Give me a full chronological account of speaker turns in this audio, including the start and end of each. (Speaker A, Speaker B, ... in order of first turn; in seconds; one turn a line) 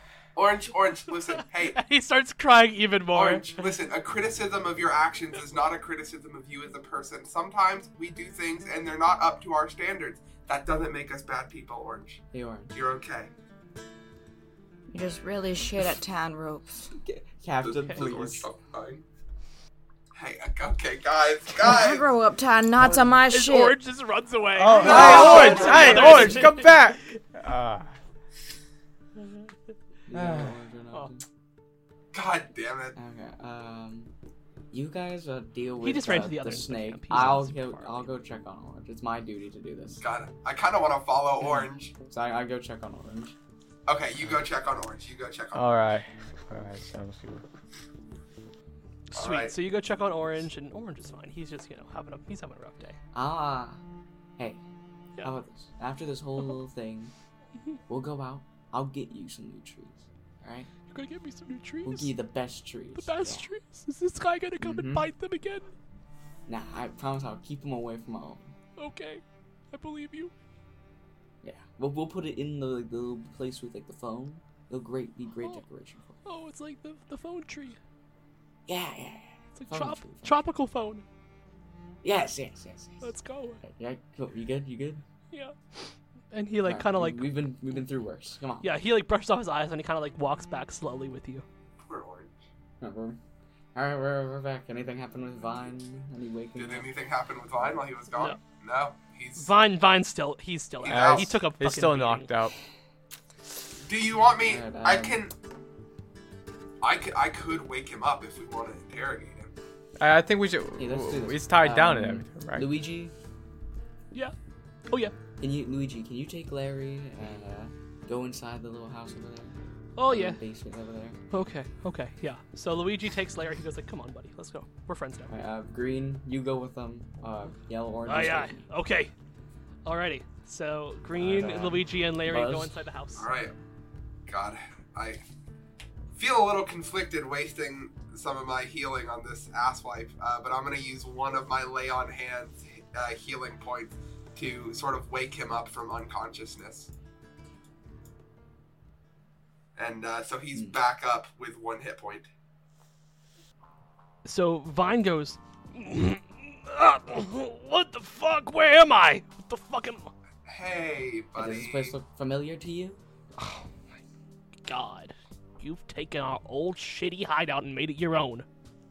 Speaker A: 0.3-1.8
Speaker B: 1.3-3.7
Speaker A: 3.1-12.2
Speaker C: 12.3-12.7
Speaker A: 12.7-13.3
Speaker D: 14.9-16.9
Speaker C: 16.9-18.5
Speaker A: 17.6-19.0
Speaker A: 20.1-22.1
Speaker D: 21.6-23.8
Speaker B: 23.3-27.2
Speaker E: 24.6-27.9
Speaker A: 24.7-26.4
Speaker C: 24.9-26.4
Speaker C: 30.1-31.2
Speaker E: 30.1-30.5
Speaker A: 32.1-33.0
Speaker C: 33.0-34.1
Speaker C: 34.7-40.0
Speaker B: 35.8-38.1
Speaker A: 40.0-41.9
Speaker C: 42.0-43.4
Speaker A: 43.9-45.7
Speaker E: 45.5-47.4
Speaker B: 49.1-53.0
Speaker A: 49.1-49.5
Speaker C: 53.1-53.8
Speaker C: 55.2-57.1
Speaker C: 57.9-60.7
Speaker B: 60.9-62.1
Speaker C: 61.8-63.5
Speaker B: 63.0-65.7
Speaker C: 64.6-65.1
Speaker C: 66.5-68.5
Speaker B: 68.8-70.3
Speaker C: 71.4-76.2
Speaker B: 76.2-77.8
Speaker C: 78.7-80.4
Speaker B: 79.5-81.0
Speaker C: 82.0-85.0
Speaker B: 83.0-83.6
Speaker B: 85.3-85.5
Speaker B: 86.3-87.3
Speaker C: 86.6-88.8
Speaker B: 88.6-91.4
Speaker A: 91.8-92.3
Speaker C: 92.8-93.2
Speaker C: 93.7-96.9
Speaker A: 96.5-99.5
Speaker B: 99.3-102.3
Speaker A: 100.8-101.3
Speaker E: 100.9-102.6
Speaker A: 103.8-105.3
Speaker C: 104.4-105.2
Speaker A: 106.8-109.5
Speaker E: 110.0-112.7
Speaker C: 110.8-113.1
Speaker B: 114.9-115.1
Speaker C: 115.4-121.2
Speaker B: 120.0-120.4
Speaker B: 121.3-125.3
Speaker C: 125.3-128.6
Speaker B: 128.1-129.1
Speaker B: 129.8-133.3
Speaker C: 131.1-132.8
Speaker A: 133.1-133.5
Speaker A: 134.3-135.2
Speaker A: 136.1-146.9
Speaker A: 149.8-152.3
Speaker C: 150.5-150.8
Speaker B: 154.2-160.1
Speaker A: 160.4-161.9
Speaker C: 161.3-163.0
Speaker B: 163.4-163.7
Speaker B: 164.7-168.4